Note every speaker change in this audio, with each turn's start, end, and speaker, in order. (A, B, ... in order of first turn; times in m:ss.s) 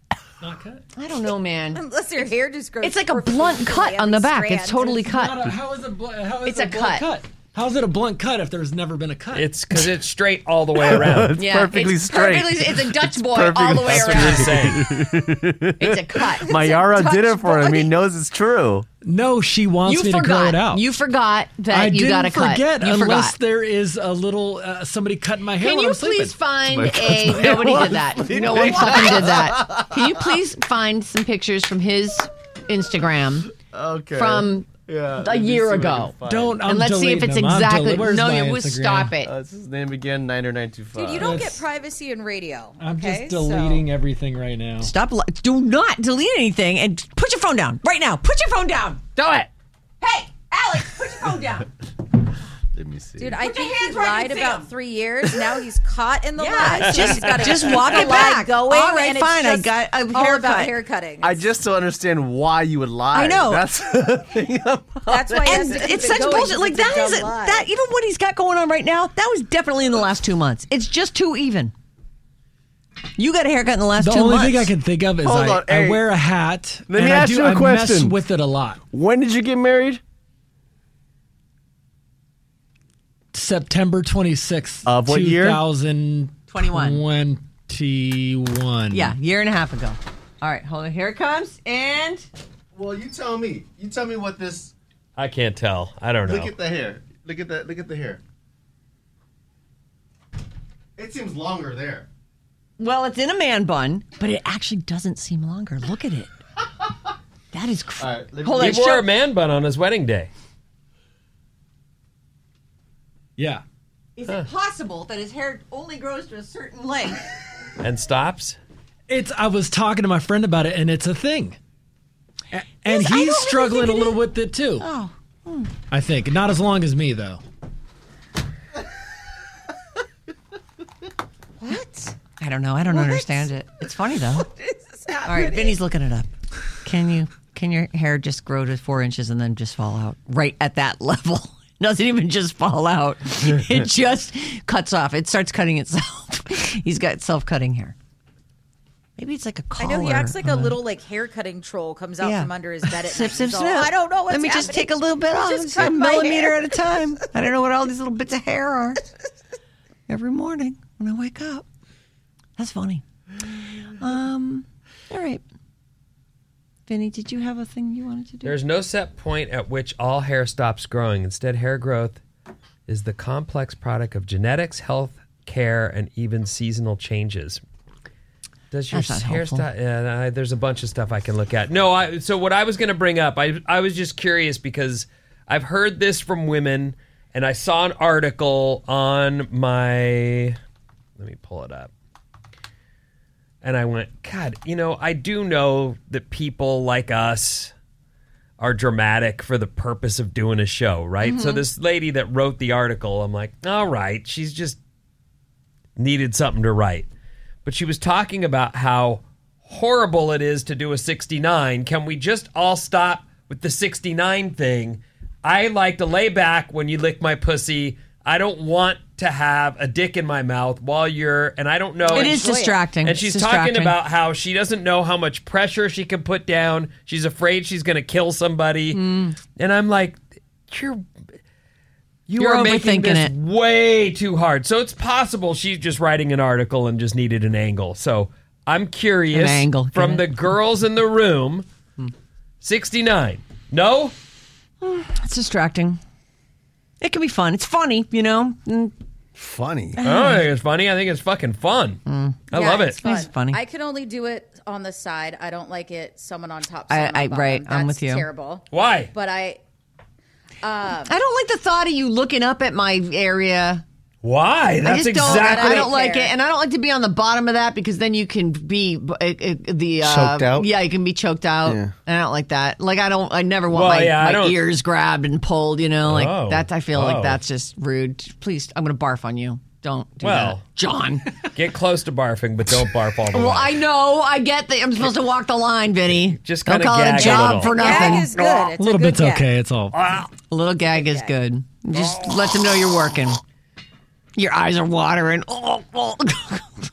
0:00.4-0:00.8 A
0:01.0-0:01.8 B
0:01.7-0:05.0 C
0:02.8-0:05.4 B
0:04.8-0:09.6 A
0:06.4-0:07.1 B
0:09.3-0:11.4 D
0:10.8-0:18.9 E
0:11.4-0:14.8 B
0:13.8-0:14.8 D
0:15.8-0:17.9 B
0:19.0-0:20.9 A
0:19.8-0:23.4 B
0:21.7-0:26.4 A
0:25.6-0:33.5 B
0:26.7-0:30.4 E
0:33.7-0:36.6 E
0:34.1-0:36.1 B
0:36.2-0:39.1 A
0:36.7-0:39.3 B
0:39.2-0:41.4 E
0:41.0-0:43.9 C
0:41.2-0:41.6 A
0:42.8-0:44.9 A
0:44.8-0:49.0 B
0:49.2-0:49.5 C
0:50.0-0:51.7 B
0:52.7-0:53.4 E
0:53.2-1:01.4 C
0:53.4-0:54.7 B
0:56.4-1:00.8 B
1:01.2-1:06.1 E
1:03.1-1:03.7 B
1:05.1-1:07.7 C
1:05.4-1:11.7 B
1:13.2-1:14.7 B
1:14.0-1:18.8 A
1:15.2-1:16.1 E
1:16.9-1:18.2 E
1:18.9-1:20.0 E
1:23.3-1:29.2 A
1:24.8-1:25.6 E
1:26.5-1:27.0 B
1:28.9-1:32.3 B
1:32.7-1:34.7 E
1:35.2-1:36.5 D
1:36.2-1:38.2 E
1:41.0-1:42.1 E
1:42.8-1:46.4 B
1:47.5-1:49.1 B
1:48.0-1:48.8 E
1:48.5-1:50.3 D
1:53.4-1:53.6 A
1:54.2-1:57.2 B
1:57.8-1:58.6 D
1:59.1-2:01.6 A
2:02.5-2:04.9 A
2:02.9-2:04.1 B
2:04.8-2:05.7 B
2:05.9-2:07.4 A
2:11.6-2:12.2 C
2:12.3-2:14.5 B
2:12.9-2:13.5 C
2:15.1-2:15.8 E
2:15.2-2:16.3 B
2:16.8-2:28.0 B
2:29.2-2:30.8 B
2:29.8-2:37.0 C
2:32.2-2:39.0 B
2:40.1-2:41.7 B
2:42.6-2:43.0 B
2:43.9-2:45.4 B
2:46.9-2:48.6 B
2:48.4-2:52.2 D
2:52.9-2:57.6 D
2:58.7-3:10.6 D
2:58.9-2:59.7 B
3:11.2-3:11.9 D
3:13.6-3:17.7 D
3:18.6-3:24.8 D
3:21.2-3:21.6 B
3:26.0-3:27.1 D
3:27.6-3:42.4 D
3:42.0-3:42.8 C
3:42.1-3:44.0 B
3:43.0-3:51.1 D
3:48.9-3:49.4 B
3:52.3-4:01.7 D
3:52.4-3:53.3 B
3:59.3-4:00.3 B
4:02.6-4:04.2 D
4:04.8-4:06.0 B
4:07.0-4:08.9 B
4:09.4-4:10.0 E
4:10.0-4:10.5 B
4:10.0-4:13.0 D
4:12.1-4:12.5 B
4:12.5-4:19.6 C
4:13.0-4:13.6 B
4:16.9-4:18.3 B
4:18.7-4:19.1 D
4:20.6-4:21.2 C
4:21.0-4:23.8 B
4:24.2-4:25.9 D
4:24.8-4:41.4 B
4:25.2-4:26.3 C
4:30.0-4:30.7 E
4:31.6-4:31.9 E
4:33.7-4:34.6 D
4:36.0-4:37.4 D
4:40.2-4:40.6 D
4:41.4-4:43.8 D
4:43.3-4:48.3 B
4:46.1-4:48.7 D
4:47.2-4:49.5 C
4:48.7-4:50.0 A
4:49.9-4:50.3 D
4:50.5-4:53.4 B
4:50.9-4:51.4 C
4:54.4-4:56.7 B